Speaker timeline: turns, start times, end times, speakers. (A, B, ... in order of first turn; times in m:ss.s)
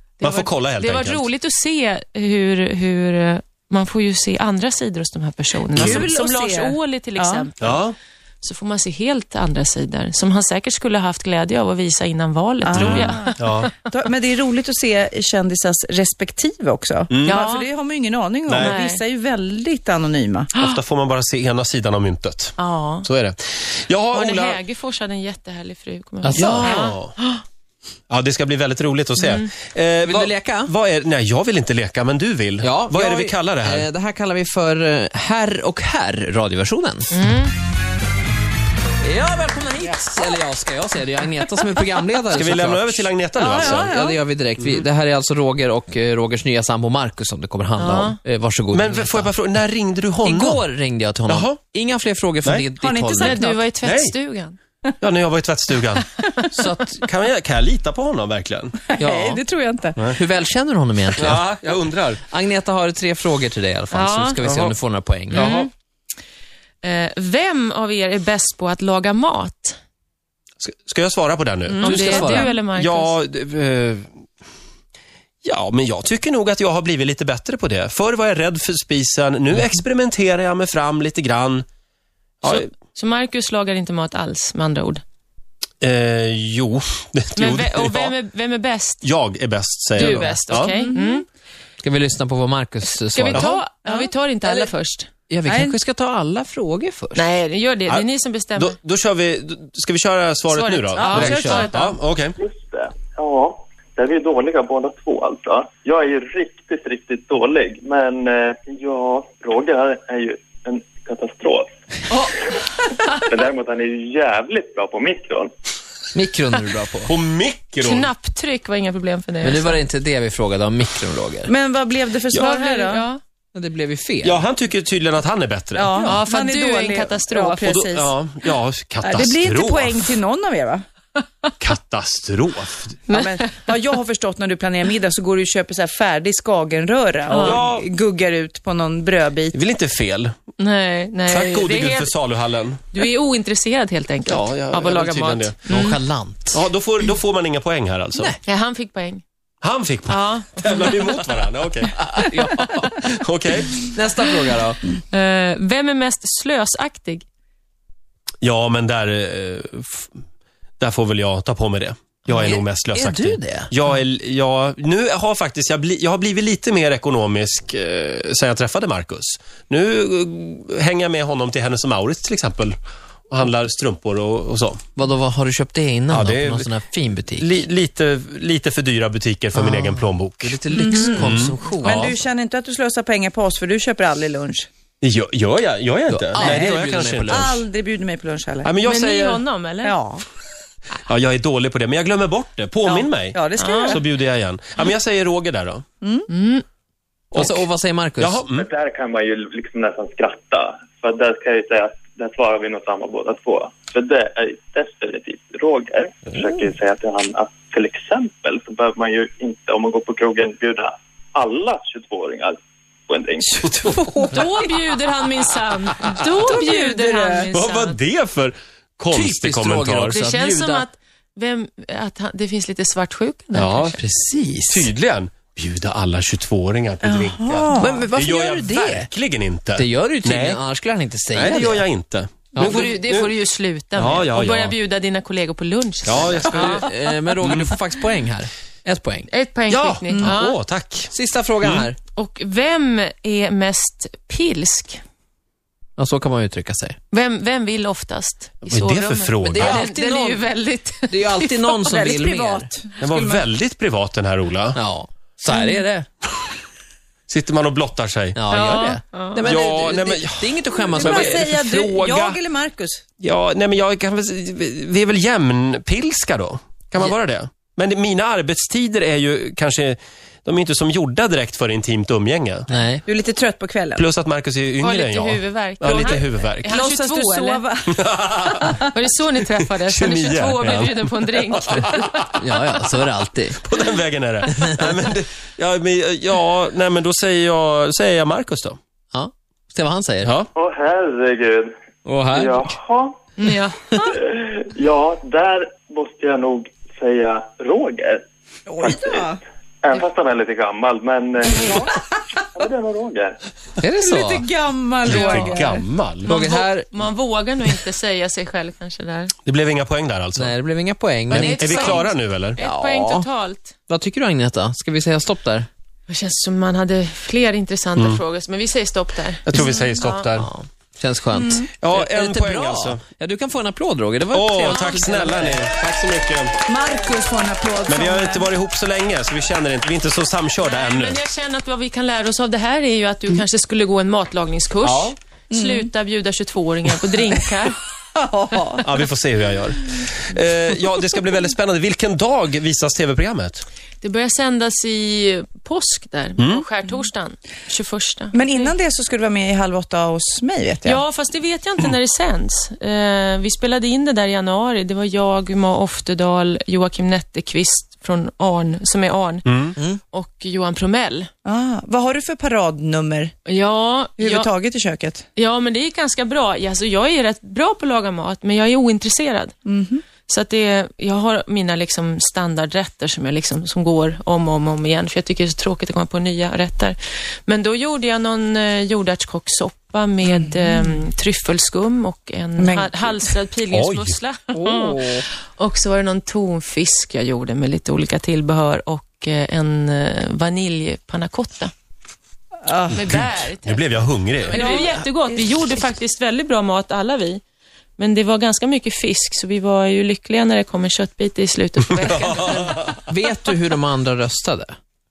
0:00.2-0:07.9 A
0:00.2-0:01.2 B
0:05.7-0:07.5 C
0:05.8-0:06.0 B
0:07.6-0:07.9 B
0:08.4-0:13.9 A
0:12.6-0:20.5 C
0:12.7-0:13.7 B
0:17.1-0:17.4 B
0:17.2-0:17.7 A
0:18.5-0:18.7 B
0:18.5-0:19.0 A
0:20.5-0:20.8 A
0:20.6-0:24.6 B
0:22.6-0:23.1 A
0:24.1-0:27.4 A
0:26.2-0:26.9 D
0:26.3-0:27.1 B
0:28.1-0:33.9 B
0:29.2-0:29.5 A
0:30.0-0:30.7 D
0:32.6-0:37.1 D
0:37.1-0:37.5 A
0:39.0-0:49.3 D
0:42.3-0:43.9 B
0:43.4-0:44.2 C
0:44.6-0:44.8 B
0:47.8-0:48.2 A
0:48.7-0:50.6 B
0:50.2-0:53.4 D
0:51.3-0:51.6 B
0:52.8-0:53.6 C
0:53.2-0:54.6 A
0:53.8-0:54.1 B
0:55.0-0:56.2 B
0:56.5-0:57.0 D
0:56.8-0:58.8 B
0:59.0-1:00.0 C
0:59.0-0:59.4 D
1:00.1-1:01.4 D
1:01.2-1:02.2 B
1:02.2-1:05.5 D
1:03.9-1:04.4 A
1:04.4-1:04.7 B
1:05.3-1:05.7 B
1:05.3-1:05.7 A
1:05.4-1:05.6 C
1:06.8-1:09.8 A
1:10.6-1:14.1 B
1:11.7-1:12.4 C
1:11.8-1:13.1 A
1:11.8-1:12.5 D
1:15.4-1:21.6 B
1:22.4-1:25.0 A
1:25.8-1:28.2 B
1:27.4-1:29.0 A
1:29.0-1:30.8 B
1:30.0-1:31.2 A
1:30.0-1:30.4 D
1:30.6-1:31.2 C
1:31.8-1:33.5 D
1:33.0-1:35.1 A
1:33.3-1:33.6 B
1:33.8-1:34.1 C
1:34.4-1:34.7 D
1:35.3-1:37.3 D
1:35.4-1:35.8 C
1:37.1-1:38.8 A
1:37.9-1:42.4 B
1:40.5-1:41.9 A
1:41.0-1:41.7 D
1:41.1-1:41.6 C
1:42.4-1:51.7 E
1:53.2-1:55.5 E
1:56.1-1:57.1 D
1:57.1-1:58.1 B
1:57.8-1:59.8 A
1:59.4-2:01.5 D
2:01.4-2:03.0 C
2:02.3-2:03.2 A
2:03.5-2:04.4 D
2:04.2-2:05.9 B
2:05.7-2:08.2 C
2:06.0-2:07.7 A
2:07.6-2:10.0 B
2:09.0-2:10.8 C
2:11.6-2:13.0 B
2:13.1-2:13.7 A
2:13.1-2:19.6 C
2:17.3-2:17.8 B
2:17.3-2:17.6 A
2:19.5-2:20.3 B
2:20.6-2:22.1 A
2:21.3-2:22.8 B
2:22.9-2:26.0 A
2:24.2-2:25.6 B
2:25.7-2:26.6 D
2:26.5-2:28.4 B
2:28.4-2:29.2 A
2:29.6-2:33.8 B
2:30.1-2:31.1 A
2:32.0-2:33.0 D
2:33.8-2:34.8 D
2:35.1-2:37.2 A
2:38.4-2:40.1 B
2:40.8-2:52.8 B
2:42.3-2:43.7 D
2:53.3-2:54.8 B
2:55.0-2:57.5 D
2:56.1-2:56.7 B
2:57.4-3:00.6 B
2:59.5-3:02.2 D
3:00.7-3:04.7 C
3:00.8-3:01.2 A
3:01.1-3:02.2 B
3:05.0-3:07.6 B
3:06.1-3:07.6 D
3:06.4-3:06.7 C
3:07.3-3:08.7 C
3:08.6-3:09.4 B
3:08.8-3:10.0 A
3:09.8-3:10.2 C
3:11.0-3:15.8 B
3:12.8-3:14.0 C
3:13.6-3:14.0 A
3:16.0-3:16.3 C
3:16.3-3:16.6 A
3:17.3-3:17.6 B
3:17.3-3:18.4 D
3:18.2-3:18.7 B
3:18.5-3:32.6 E
3:33.1-3:33.6 E
3:33.5-3:34.7 C
3:34.3-3:38.0 A
3:36.4-3:37.5 C
3:37.5-3:40.2 B
3:39.1-3:40.8 D
3:40.1-3:44.0 A
3:43.5-3:44.0 B
3:44.0-3:44.9 D
3:44.6-3:50.6 B
3:47.0-3:48.1 C
3:47.7-3:49.1 D
3:49.8-3:51.8 D
3:51.3-3:53.3 B
3:52.5-3:52.8 D
3:52.5-3:56.9 A
3:54.0-3:54.7 B
3:56.0-3:56.8 B
3:56.4-3:59.3 D
3:57.4-3:57.7 B
3:59.3-4:00.6 A
3:59.7-4:01.9 B
4:01.1-4:02.0 D
4:02.2-4:05.0 A
4:06.0-4:07.0 D
4:07.1-4:11.8 A
4:08.7-4:09.8 B
4:09.4-4:10.5 D
4:11.1-4:12.7 D
4:11.9-4:13.4 C
4:13.0-4:14.8 B
4:14.7-4:16.1 D
4:17.3-4:18.4 B
4:18.3-4:21.6 D
4:18.5-4:19.6 A
4:19.4-4:22.4 B
4:20.9-4:23.0 C
4:23.2-4:32.7 B
4:32.7-4:33.0 D
4:33.0-4:34.0 C
4:34.0-4:36.7 B
4:34.8-4:37.6 A
4:35.8-4:38.0 C
4:38.0-4:38.8 B
4:38.9-4:42.4 A
4:39.8-4:42.1 B
4:42.4-4:43.6 D
4:43.6-4:48.8 B
4:49.1-4:50.3 D
4:50.2-4:50.5 B
4:50.5-4:51.7 E
4:52.0-4:52.7 D
4:52.3-4:53.2 E
4:53.4-4:54.1 A
4:54.0-4:58.2 E
4:58.7-4:59.4 C
4:58.8-5:01.8 E
5:01.5-5:02.0 C
5:02.5-5:03.3 E
5:03.8-5:04.5 D
5:04.0-5:05.8 C
5:05.0-5:06.4 B
5:05.1-5:05.5 A
5:06.2-5:09.3 A
5:06.2-5:06.9 D
5:09.4-5:10.5 B
5:10.4-5:13.3 D
5:11.3-5:12.6 B
5:11.3-5:13.7 A
5:13.9-5:15.7 D
5:16.1-5:20.2 A
5:18.0-5:18.2 B
5:19.4-5:20.5 B
5:19.6-5:20.0 C
5:20.3-5:25.6 D
5:21.3-5:21.7 C
5:21.8-5:23.0 B
5:24.3-5:26.6 B
5:24.7-5:25.0 A
5:26.7-5:28.5 C
5:27.9-5:31.2 B
5:30.6-5:37.8 A
5:34.8-5:35.1 B
5:35.5-5:35.9 C
5:38.1-5:39.0 C
5:38.8-5:43.6 B
5:44.0-5:48.7 A
5:46.4-5:46.6 B
5:48.3-5:51.0 C
5:50.8-6:01.3 A
5:59.4-5:59.8 B
6:01.4-6:03.3 C
6:03.4-6:04.5 A
6:04.2-6:05.2 C
6:05.4-6:09.5 A
6:09.6-6:10.0 C
6:10.2-6:31.7 A
6:20.2-6:21.0 C
6:22.6-6:23.4 C
6:23.7-6:24.2 B
6:24.6-6:25.2 D
6:32.6-6:33.1 C
6:32.9-6:37.4 A
6:33.1-6:34.6 B
6:34.5-6:35.5 C
6:38.0-6:42.8 A
6:42.2-6:43.0 B
6:43.1-6:44.8 D